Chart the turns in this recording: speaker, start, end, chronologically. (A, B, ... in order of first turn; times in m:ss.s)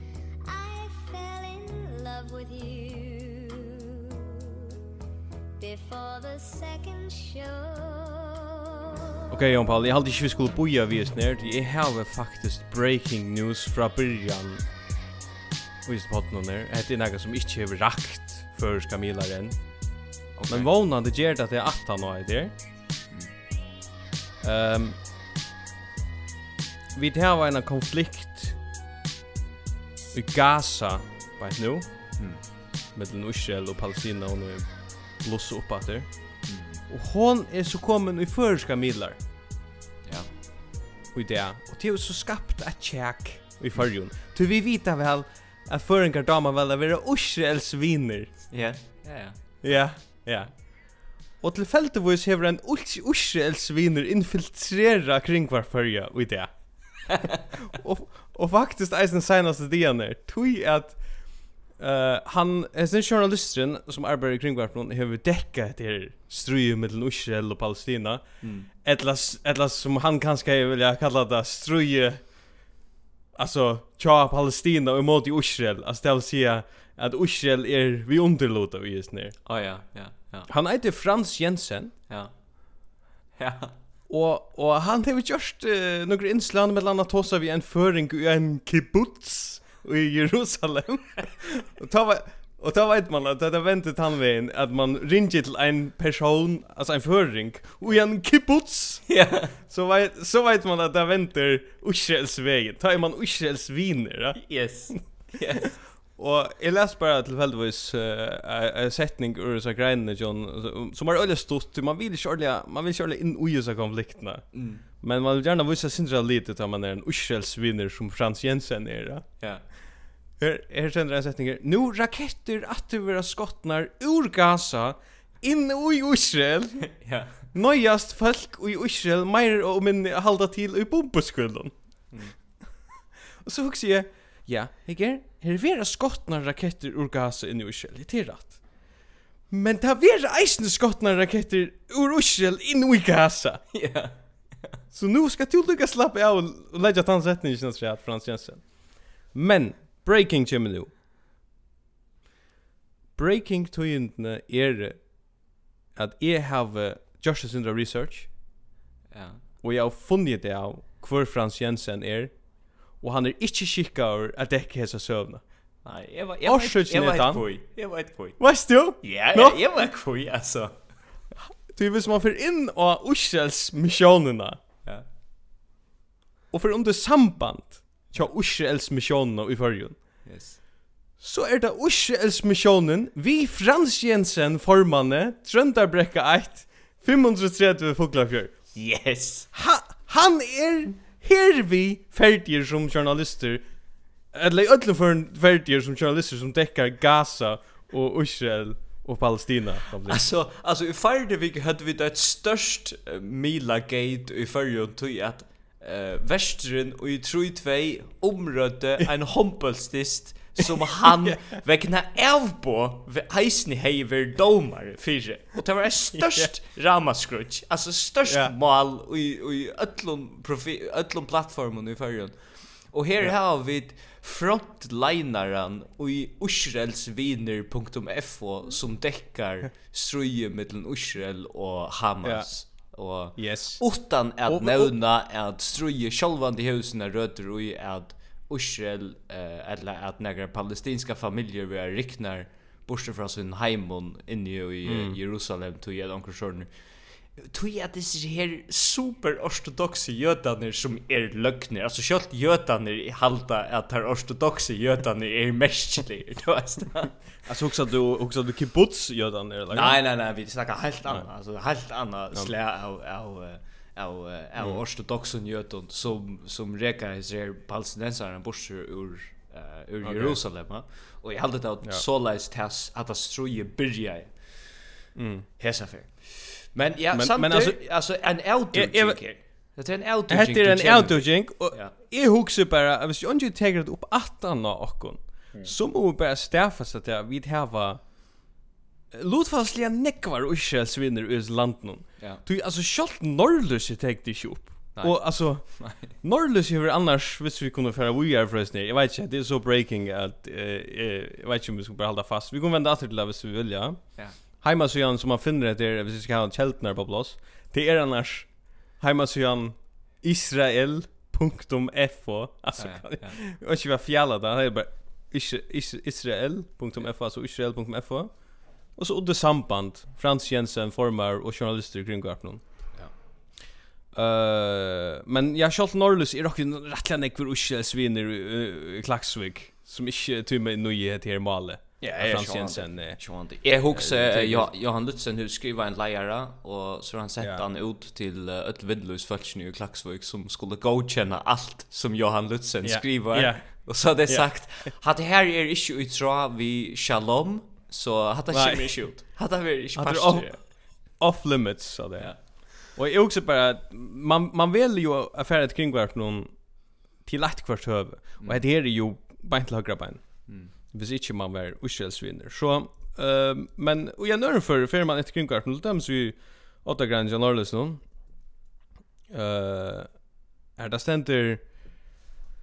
0:00.4-0:04.6 A
0:05.6-0:09.2 A
0:09.3-0:14.6 B
0:15.8-0:20.0 B
0:20.4-0:20.7 C
0:20.5-0:22.5 B
0:24.4-0:25.0 B
0:26.9-0:28.6 B
0:30.1-0:32.2 B
0:32.9-0:39.2 B
0:36.5-0:36.8 C
0:40.0-0:40.3 C
0:41.1-0:48.5 B
0:48.5-0:49.8 C
0:49.6-1:12.3 B
1:08.4-1:08.7 C
1:13.3-1:19.4 B
1:19.4-1:20.5 C
1:20.5-1:21.9 B
1:22.1-1:23.7 C
1:24.1-1:45.0 B
1:39.1-1:39.5 C
1:44.4-1:45.8 C
1:46.2-1:59.3 B
1:54.5-1:54.8 C
1:59.4-1:59.6 C
2:00.4-2:11.7 B
2:07.0-2:07.4 C
2:13.4-2:18.8 B
2:19.5-2:23.7 B
2:23.7-2:24.8 C
2:24.9-2:30.9 B
2:33.2-2:38.3 B
2:39.1-2:39.4 C
2:39.6-2:45.4 B
2:45.8-2:48.4 C
2:46.4-2:47.4 B
2:48.4-2:49.6 B
2:49.0-2:50.9 C
2:51.7-2:54.6 B
2:56.5-3:00.2 B
3:00.2-3:00.6 C
3:01.2-3:08.7 B
3:08.7-3:09.5 C
3:09.5-3:13.6 B
3:14.3-3:20.2 B
3:20.1-4:17.2 C
3:36.2-3:36.5 B
3:38.2-3:38.5 B
3:52.2-3:52.7 B
3:53.3-3:54.9 B
4:04.9-4:05.2 B
4:17.4-4:20.0 B
4:19.7-4:34.8 C
4:30.0-4:30.4 B
4:35.2-4:35.4 B
4:35.6-4:41.9 C
4:37.1-4:37.9 B
4:38.7-4:39.2 B
4:40.3-4:48.0 B
4:49.1-5:22.6 B
4:54.9-4:56.1 C
5:12.8-5:13.4 C
5:24.1-5:33.2 B
5:32.0-5:50.6 C
5:33.9-5:34.7 B
5:42.8-5:44.5 B
5:48.5-5:49.4 B
5:50.0-6:08.0 B
6:00.5-6:00.7 C
6:09.3-6:10.2 B
6:10.7-6:11.6 B